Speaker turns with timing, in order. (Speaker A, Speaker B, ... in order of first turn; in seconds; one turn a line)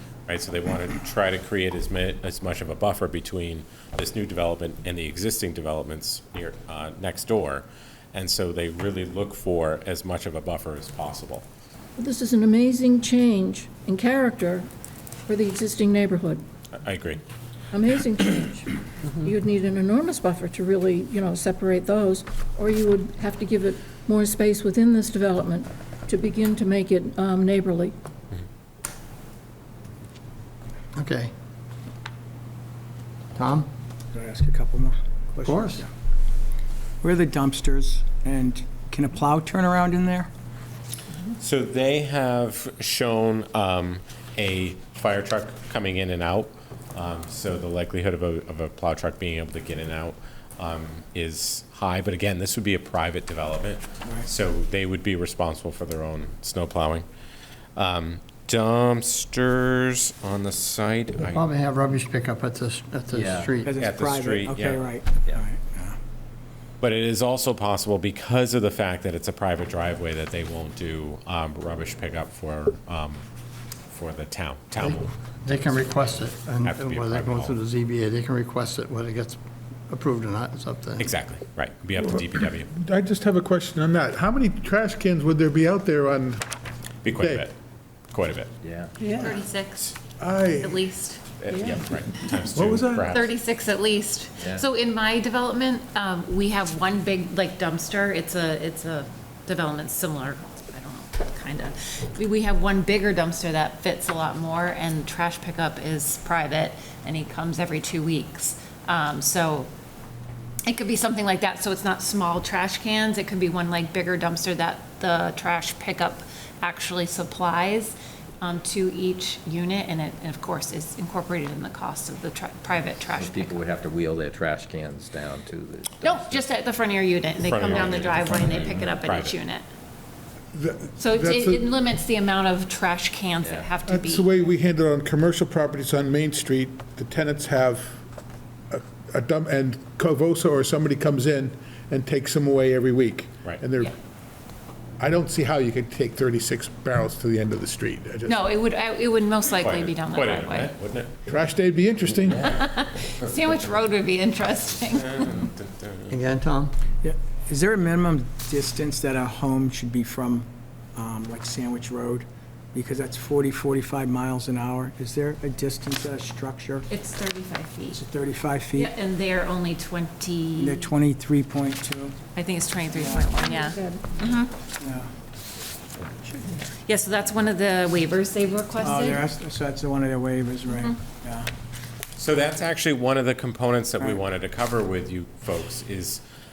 Speaker A: 0.3-11.4
Speaker B: 12.0-14.7
Speaker B: 15.3-16.4
Speaker A: 16.8-17.2
Speaker B: 17.7-27.9
Speaker C: 30.9-31.3
Speaker C: 33.4-33.7
Speaker D: 34.1-35.9
Speaker C: 35.4-35.8
Speaker D: 37.0-40.3
Speaker A: 41.4-57.0
Speaker A: 57.8-61.4
Speaker C: 61.2-63.7
Speaker E: 63.1-63.5
Speaker D: 63.6-66.0
Speaker A: 63.8-64.9
Speaker A: 66.8-73.2
Speaker A: 73.9-77.6
Speaker C: 74.8-79.4
Speaker C: 79.9-81.1
Speaker A: 81.0-82.7
Speaker F: 82.7-86.4
Speaker A: 87.0-87.5
Speaker F: 87.1-87.5
Speaker A: 88.1-88.5
Speaker E: 88.6-88.9
Speaker F: 89.0-89.3
Speaker G: 89.1-90.0
Speaker F: 90.2-90.9
Speaker G: 90.6-91.2
Speaker A: 91.4-93.3
Speaker F: 92.5-93.2
Speaker G: 93.1-109.7
Speaker E: 94.4-94.6
Speaker G: 110.7-123.7
Speaker E: 123.1-126.5
Speaker G: 126.0-129.6
Speaker A: 127.4-129.3
Speaker E: 127.6-128.8
Speaker F: 130.5-131.7
Speaker G: 131.0-134.2
Speaker E: 133.4-133.8
Speaker F: 133.8-138.0
Speaker F: 138.7-143.9
Speaker F: 145.0-148.6
Speaker G: 148.2-150.7
Speaker A: 149.5-151.1
Speaker F: 151.2-152.6
Speaker G: 152.3-155.3
Speaker A: 154.9-156.2
Speaker C: 156.1-156.7
Speaker D: 157.0-166.9
Speaker G: 166.9-168.0
Speaker D: 167.9-168.9
Speaker G: 168.7-170.9
Speaker D: 170.6-172.2
Speaker G: 172.3-174.5
Speaker D: 172.9-173.2
Speaker B: 173.1-174.0
Speaker D: 174.8-175.1
Speaker G: 176.8-179.2
Speaker D: 178.8-181.4
Speaker A: 182.2-186.2